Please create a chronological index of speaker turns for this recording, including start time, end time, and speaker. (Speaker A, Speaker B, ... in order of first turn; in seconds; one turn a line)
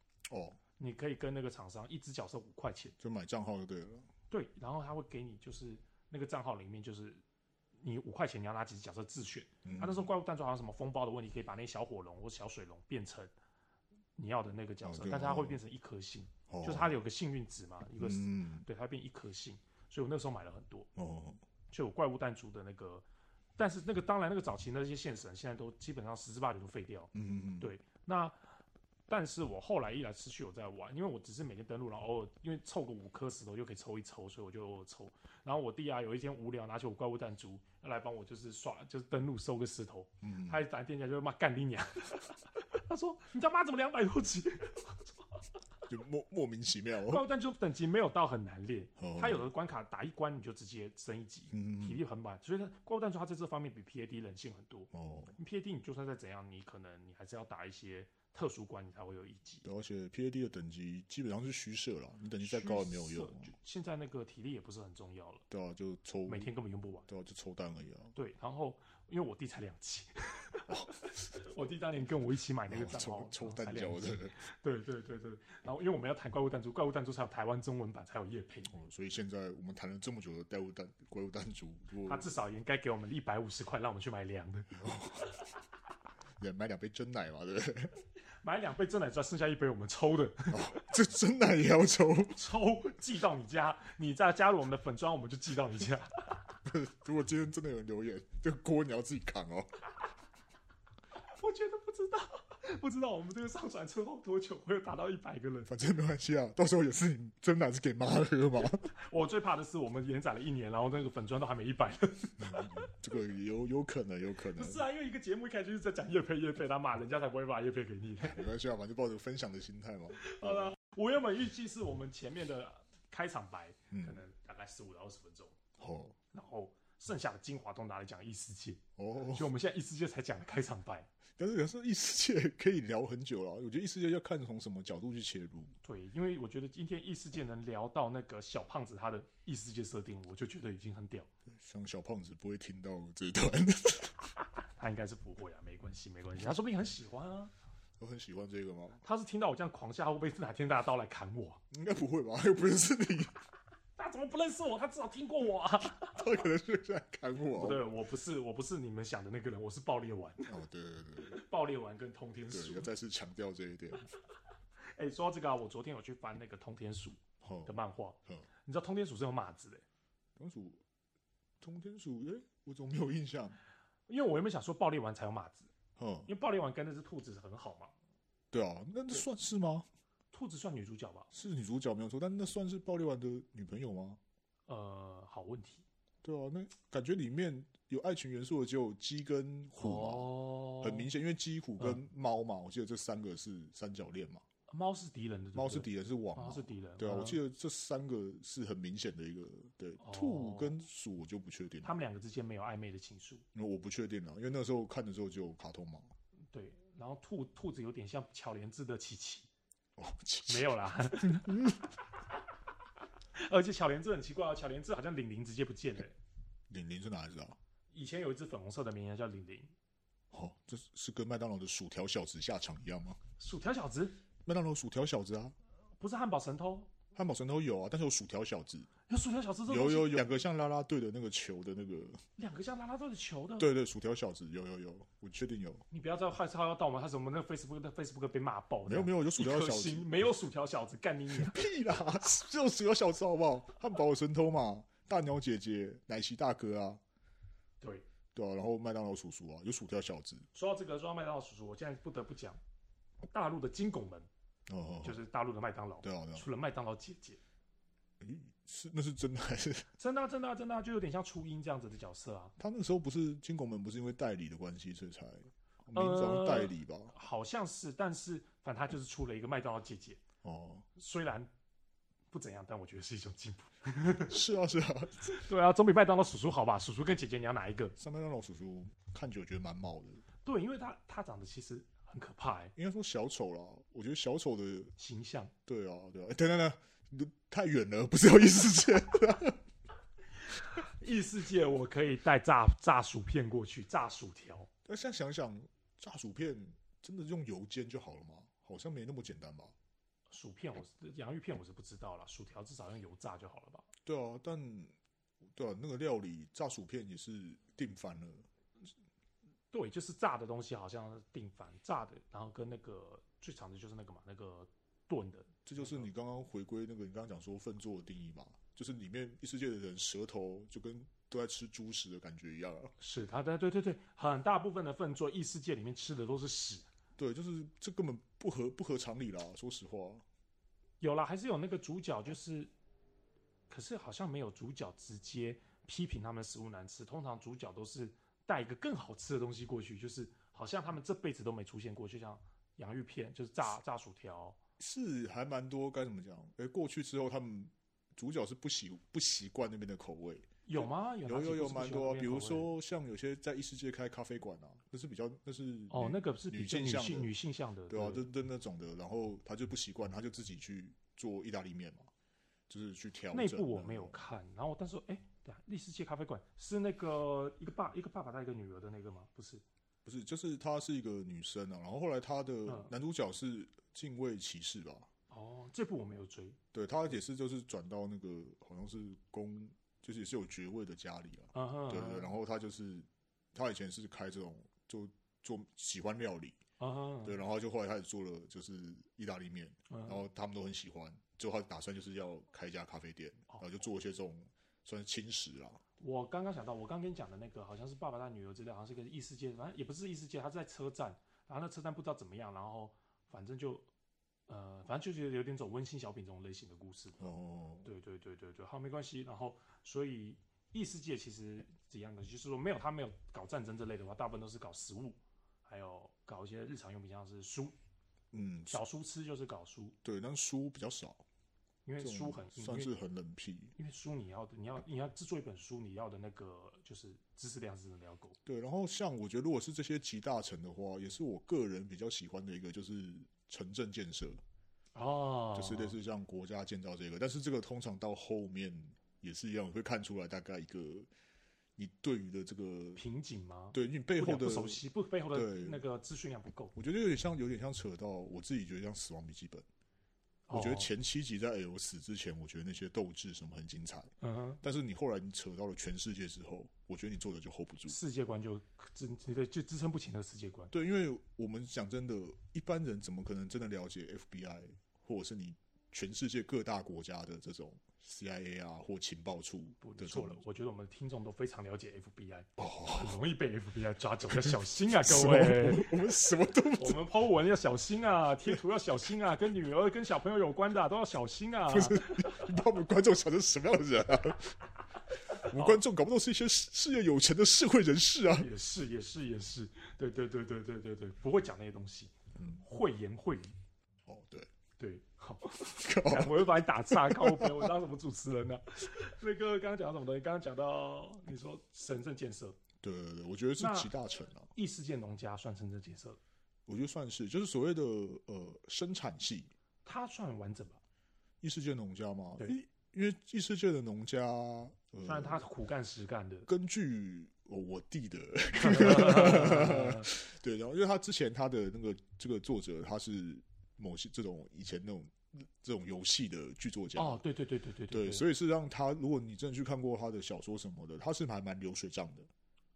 Speaker A: 0.3-0.6
Speaker B: 0.8-3.0
Speaker A: 3.0-4.1
Speaker B: 4.3-7.2
Speaker B: 7.8-13.3
Speaker A: 9.6-10.1
Speaker B: 14.2-20.9
Speaker A: 14.8-15.6
Speaker A: 16.5-17.0
Speaker A: 18.0-18.6
Speaker A: 20.9-21.4
Speaker B: 21.7-23.0
Speaker B: 23.6-28.4
Speaker A: 27.1-27.7
Speaker B: 29.1-45.1
Speaker A: 40.2-40.6
Speaker A: 45.9-47.2
Speaker B: 47.0-59.6
Speaker A: 49.0-49.5
Speaker A: 51.5-52.0
Speaker A: 54.9-55.4
Speaker A: 59.6-63.5
Speaker B: 62.4-65.4
Speaker A: 65.5-66.5
Speaker B: 66.3-67.1
Speaker A: 67.1-68.1
Speaker B: 68.1-78.7
Speaker A: 72.7-74.3
Speaker A: 78.7-82.3
Speaker B: 82.0-85.3
Speaker A: 84.8-85.3
Speaker A: 86.4-87.9
Speaker B: 88.4-90.9
Speaker A: 90.5-92.4
Speaker B: 92.3-96.2
Speaker A: 96.7-99.7
Speaker B: 101.2-105.7
Speaker A: 105.7-108.9
Speaker B: 108.9-112.8
Speaker A: 112.4-114.8
Speaker B: 114.5-118.4
Speaker A: 118.2-120.7
Speaker B: 120.1-125.5
Speaker A: 123.9-124.2
Speaker A: 125.8-126.2
Speaker B: 126.3-131.1
Speaker A: 129.0-129.5
Speaker A: 131.4-135.7
Speaker B: 135.8-141.3
Speaker A: 141.5-144.2
Speaker B: 144.8-147.5
Speaker A: 148.0-149.0
Speaker B: 149.0-151.6
Speaker A: 151.7-153.3
Speaker B: 154.0-156.3
Speaker A: 156.0-157.8
Speaker B: 157.5-160.5
Speaker A: 160.5-161.4
Speaker B: 161.2-162.9
Speaker A: 162.5-164.1
Speaker B: 164.9-169.8
Speaker A: 167.4-167.7
Speaker A: 170.4-170.8
Speaker A: 171.6-173.6
Speaker B: 174.1-175.7
Speaker A: 176.0-176.3
Speaker B: 176.3-177.9
Speaker A: 178.5-179.8
Speaker B: 180.3-181.3
Speaker A: 181.3-184.2
Speaker B: 184.7-185.8
Speaker A: 186.2-194.4
Speaker B: 189.8-191.1
Speaker B: 194.7-197.4
Speaker A: 195.5-201.9
Speaker B: 200.0-200.8
Speaker B: 201.8-203.4
Speaker A: 203.5-206.1
Speaker B: 206.5-209.5
Speaker A: 210.0-210.7
Speaker B: 210.4-211.7
Speaker A: 211.2-211.8
Speaker B: 213.3-216.2
Speaker A: 216.7-217.6
Speaker B: 217.9-219.7
Speaker A: 220.3-223.2
Speaker B: 223.4-224.2
Speaker A: 224.4-225.6
Speaker B: 226.0-226.9
Speaker A: 227.1-228.9
Speaker B: 229.1-230.3
Speaker A: 229.7-232.2
Speaker B: 232.4-233.7
Speaker A: 233.6-235.8
Speaker B: 235.9-241.7
Speaker A: 238.8-240.2
Speaker A: 241.3-247.0
Speaker A: 248.3-250.5
Speaker B: 250.5-252.6
Speaker B: 253.3-254.3
Speaker A: 254.7-255.2
Speaker B: 255.0-257.4
Speaker A: 256.0-256.4
Speaker A: 258.2-259.9
Speaker B: 260.0-262.5
Speaker A: 262.6-267.1
Speaker B: 265.9-270.2
Speaker A: 270.4-270.9
Speaker B: 270.9-271.5
Speaker B: 272.3-274.4
Speaker A: 274.2-275.4
Speaker B: 275.2-277.9
Speaker A: 277.9-280.2
Speaker B: 280.4-282.7
Speaker A: 282.7-284.9
Speaker B: 285.0-285.5
Speaker A: 285.6-289.6
Speaker B: 290.4-294.7
Speaker A: 294.8-299.7
Speaker B: 300.3-303.9
Speaker A: 304.0-304.9
Speaker A: 305.5-308.5
Speaker B: 309.7-316.1
Speaker A: 315.6-322.9
Speaker B: 323.0-326.9
Speaker A: 327.2-330.2
Speaker B: 331.0-332.7
Speaker B: 333.7-344.6
Speaker A: 344.8-357.3
Speaker B: 350.6-352.7
Speaker B: 355.9-358.2
Speaker A: 357.9-362.1
Speaker A: 362.7-364.2
Speaker B: 363.3-369.6
Speaker A: 370.0-375.1
Speaker B: 372.6-372.9
Speaker B: 375.3-376.6
Speaker A: 376.7-386.6
Speaker B: 381.5-382.3
Speaker B: 386.8-387.4
Speaker A: 387.2-395.8
Speaker B: 389.9-390.2
Speaker B: 396.0-403.9
Speaker B: 404.5-417.8
Speaker A: 407.2-407.9
Speaker A: 418.3-418.8
Speaker B: 418.7-419.9
Speaker A: 420.0-421.2
Speaker B: 421.9-422.9
Speaker A: 422.0-423.8
Speaker B: 423.8-428.4
Speaker A: 428.4-434.4
Speaker B: 434.9-435.9
Speaker A: 435.5-441.1
Speaker A: 441.8-443.0
Speaker B: 442.9-446.7
Speaker A: 443.7-445.8
Speaker A: 446.7-449.6
Speaker B: 450.5-450.9
Speaker A: 450.5-457.9
Speaker B: 454.2-454.6
Speaker B: 457.9-460.7
Speaker A: 460.7-470.4
Speaker B: 469.8-475.9
Speaker A: 472.6-473.2
Speaker A: 474.3-477.0
Speaker B: 476.7-482.5
Speaker A: 481.7-484.6
Speaker A: 485.3-488.5
Speaker B: 485.3-485.8
Speaker B: 488.3-493.5
Speaker A: 492.4-492.6
Speaker A: 494.1-494.5
Speaker B: 494.8-502.6
Speaker A: 495.7-497.7
Speaker A: 502.8-504.5
Speaker B: 503.6-503.9
Speaker B: 504.5-506.2
Speaker A: 506.7-509.5
Speaker B: 509.8-510.8
Speaker A: 511.4-515.4
Speaker B: 515.0-516.5
Speaker A: 516.5-527.2
Speaker B: 518.5-520.1
Speaker B: 527.0-528.2
Speaker A: 527.9-532.3